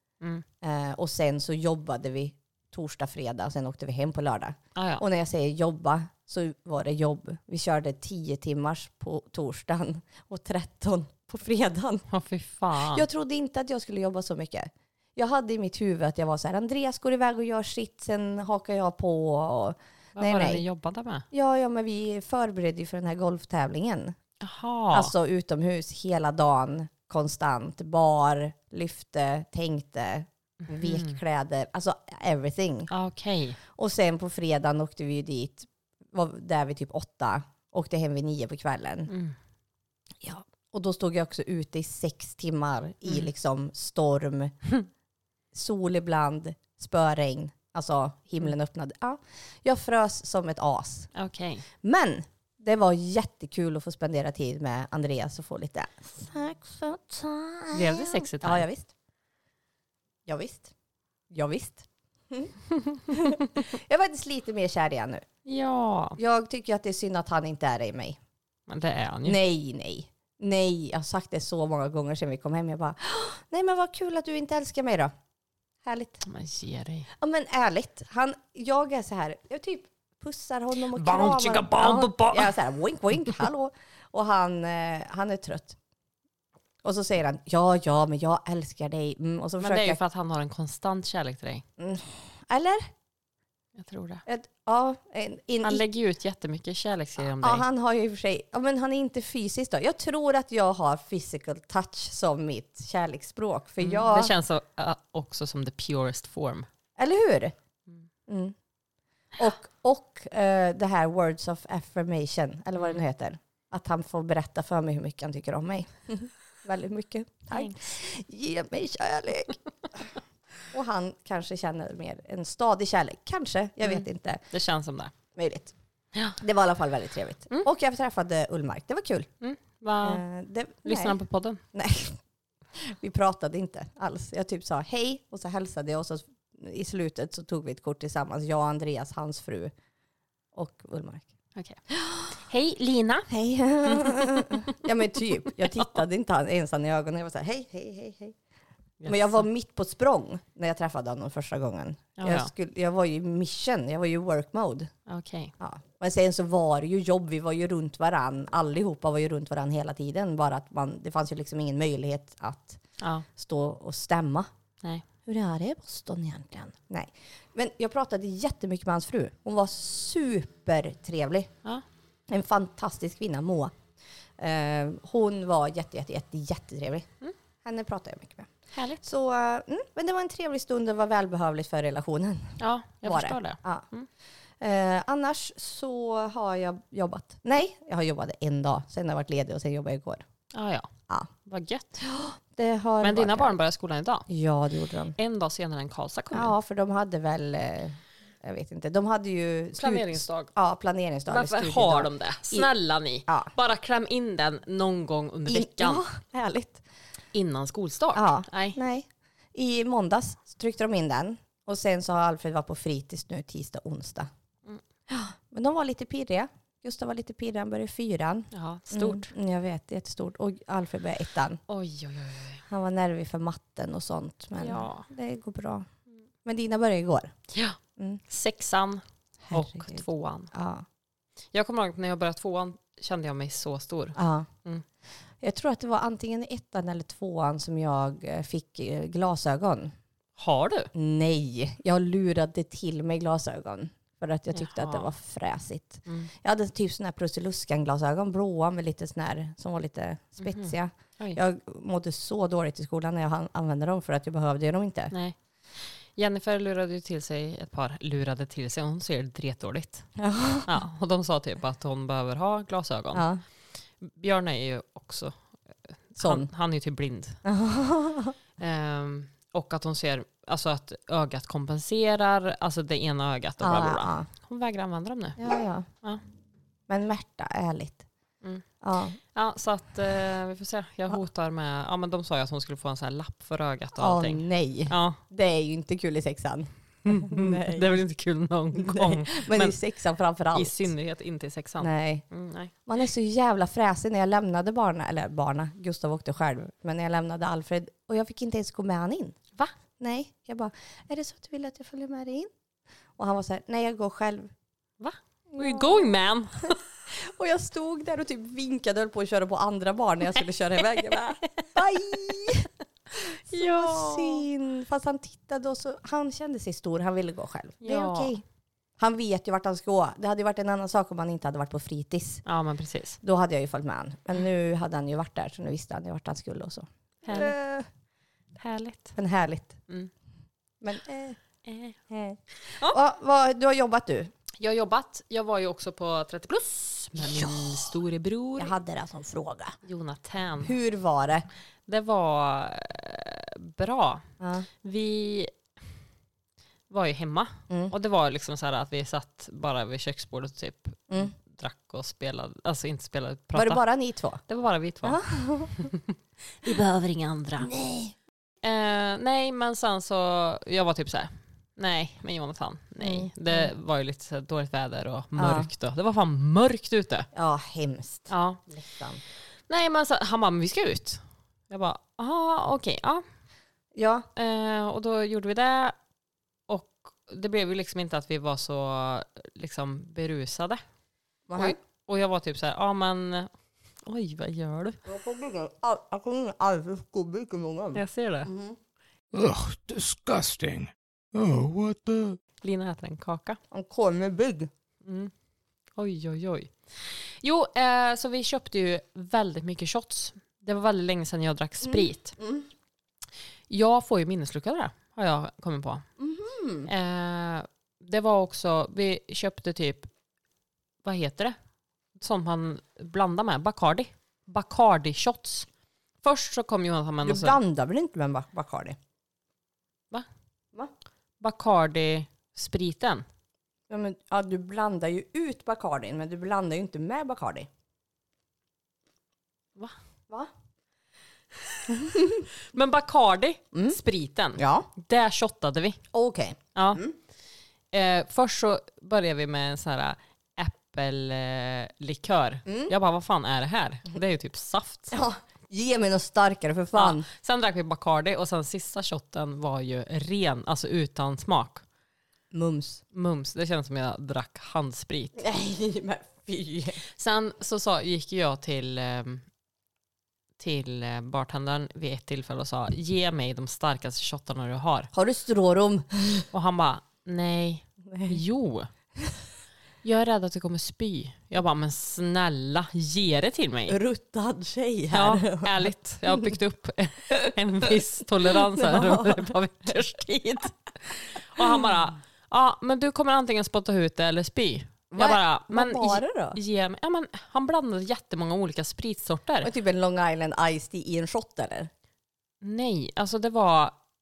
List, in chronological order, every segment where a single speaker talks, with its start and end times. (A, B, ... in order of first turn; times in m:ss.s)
0:00.6-0:12.0 A
0:04.8-0:05.0 B
0:12.1-0:13.1 B
0:12.9-0:20.6 A
0:20.2-0:21.2 B
0:21.3-0:24.1 A
0:24.4-0:25.1 B
0:24.9-0:32.9 A
0:30.7-0:31.2 B
0:32.9-0:33.6 B
0:33.7-0:39.1 A
0:39.1-0:39.4 B
0:40.2-0:44.6 A
0:45.5-0:51.1 A
0:51.1-0:51.7 B
0:51.8-0:58.9 A
0:57.7-0:58.7 B
1:00.3-1:00.7 A
1:01.3-1:02.5 A
1:03.1-1:05.2 A
1:05.4-1:06.2 B
1:06.2-1:08.2 A
1:08.7-1:09.4 B
1:09.2-1:15.1 A
1:15.8-1:16.2 A
1:16.2-1:17.1 B
1:17.1-1:25.8 A
1:20.9-1:22.6 B
1:26.8-1:30.0 A
1:29.6-1:31.6 B
1:31.8-1:32.9 A
1:33.8-1:34.2 B
1:34.3-1:35.8 A
1:35.6-1:37.6 B
1:37.2-1:44.3 A
1:43.8-1:46.7 B
1:47.0-1:47.6 A
1:48.3-1:48.6 A
1:49.4-2:00.0 A
1:57.5-1:57.8 B
2:00.7-2:04.4 A
2:03.8-2:05.1 B
2:05.4-2:05.7 A
2:06.4-2:09.3 A
2:09.4-2:10.2 B
2:10.0-2:11.1 A
2:10.8-2:11.6 B
2:11.7-2:12.2 A
2:12.8-2:19.7 A
2:20.5-2:21.3 A
2:21.9-2:22.3 A
2:22.3-2:23.3 B
2:23.3-2:28.4 A
2:23.9-2:24.5 B
2:29.0-2:29.4 B
2:29.0-2:34.9 A
2:32.2-2:32.5 B
2:35.1-2:35.5 B
2:35.6-2:42.8 A
2:43.0-2:43.2 B
2:43.4-2:44.5 A
2:45.2-2:51.5 A
2:52.3-2:53.7 A
2:54.4-2:57.1 A
2:57.6-3:03.8 A
2:58.7-2:59.0 B
3:02.6-3:04.1 B
3:04.6-3:10.2 A
3:10.5-3:10.9 B
3:11.4-3:12.0 B
3:12.0-3:13.6 A
3:13.0-3:14.3 B
3:14.3-3:15.2 A
3:15.2-3:16.6 B
3:16.3-3:22.7 A
3:19.8-3:20.5 B
3:21.3-3:26.0 B
3:25.5-3:26.8 A
3:27.3-3:28.8 B
3:28.2-3:34.3 A
3:35.1-3:41.6 A
3:38.5-3:39.3 B
3:41.7-3:42.6 B
3:42.7-3:45.8 A
3:44.6-3:45.1 B
3:46.4-3:47.3 A
3:47.5-3:47.8 B
3:48.3-3:50.5 B
3:49.5-3:50.8 A
3:51.5-3:54.8 B
3:54.2-3:54.5 A
3:55.4-3:59.9 A
4:00.4-4:00.9 B
4:00.9-4:15.1 A
4:04.5-4:05.1 B
4:10.4-4:11.4 B
4:15.1-4:20.1 B
4:20.2-4:20.7 A
4:20.7-4:23.3 B
4:23.1-4:23.4 A
4:24.0-4:27.4 B
4:26.2-4:26.5 A
4:27.4-4:28.3 A
4:28.6-4:35.4 B
4:33.6-4:34.3 A
4:35.4-4:35.9 A
4:36.9-4:38.0 A
4:38.8-4:39.2 A
4:39.3-4:45.2 B
4:44.0-4:47.9 A
4:47.0-4:49.8 B
4:48.7-4:50.9 A
4:50.5-4:52.7 B
4:51.8-4:52.2 A
4:52.8-4:59.4 A
5:00.0-5:02.5 A
5:03.2-5:04.5 A
5:05.0-5:06.8 B
5:05.5-5:06.1 A
5:07.1-5:12.7 A
5:13.2-5:14.4 B
5:13.2-5:18.4 A
5:17.8-5:18.3 B
5:19.0-5:22.4 A
5:22.4-5:23.2 B
5:23.2-5:27.9 A
5:27.2-5:27.6 B
5:28.6-5:29.2 B
5:29.2-5:29.8 A
5:30.8-5:31.4 A
5:31.6-5:32.0 B
5:32.1-5:34.3 A
5:32.7-5:33.0 B
5:34.6-5:38.7 B
5:37.2-5:37.9 A
5:38.6-5:39.8 A
5:39.8-5:40.7 B
5:40.6-5:41.5 A
5:41.9-5:44.2 B
5:44.4-5:44.7 A
5:44.8-5:45.5 B
5:46.9-5:53.8 B
5:53.6-5:54.4 A
5:54.5-5:55.2 B
5:55.0-5:55.9 A
5:55.7-5:57.7 B
5:57.6-5:58.2 A
5:58.6-6:07.3 B
6:03.0-6:03.7 A
6:05.4-6:05.7 A
6:07.3-6:09.2 A
6:08.3-6:08.6 B
6:09.7-6:13.2 B
6:13.9-6:14.3 A
6:14.4-6:16.0 B
6:16.7-6:20.8 B
6:21.5-6:21.8 A
6:21.6-6:23.5 B
6:24.0-6:25.0 B
6:25.0-6:28.8 A
6:27.9-6:28.5 B
6:29.3-6:32.4 C
6:32.6-6:33.6 B
6:33.7-6:34.7 A
6:35.0-6:35.3 B
6:36.0-6:42.4 B
6:41.8-6:42.7 A
6:43.7-6:46.1 B
6:46.2-6:46.9 A
6:46.8-6:50.1 B
6:51.0-6:51.6 B
6:52.2-6:55.7 B
6:56.2-6:57.6 B
6:57.2-6:59.0 A
7:01.4-7:03.2 B
7:03.9-7:07.7 A
7:11.9-7:12.4 A
7:12.7-7:16.0 B
7:14.6-7:14.9 A
7:16.1-7:17.1 A
7:16.7-7:17.0 B
7:17.9-7:25.2 B
7:22.7-7:22.9 A
7:25.1-7:27.3 A
7:26.9-7:31.8 B
7:32.5-7:33.0 A
7:33.1-7:35.4 B
7:35.4-7:37.0 A
7:37.1-7:39.4 B
7:40.6-7:45.1 B
7:45.1-7:46.5 A
7:46.5-7:48.9 B
7:48.1-7:48.4 A
7:50.0-7:54.0 B
7:53.9-7:56.5 A
7:55.1-8:09.7 B
7:58.5-7:59.5 A
8:05.1-8:06.6 A
8:09.6-8:11.9 A
8:12.6-8:13.9 B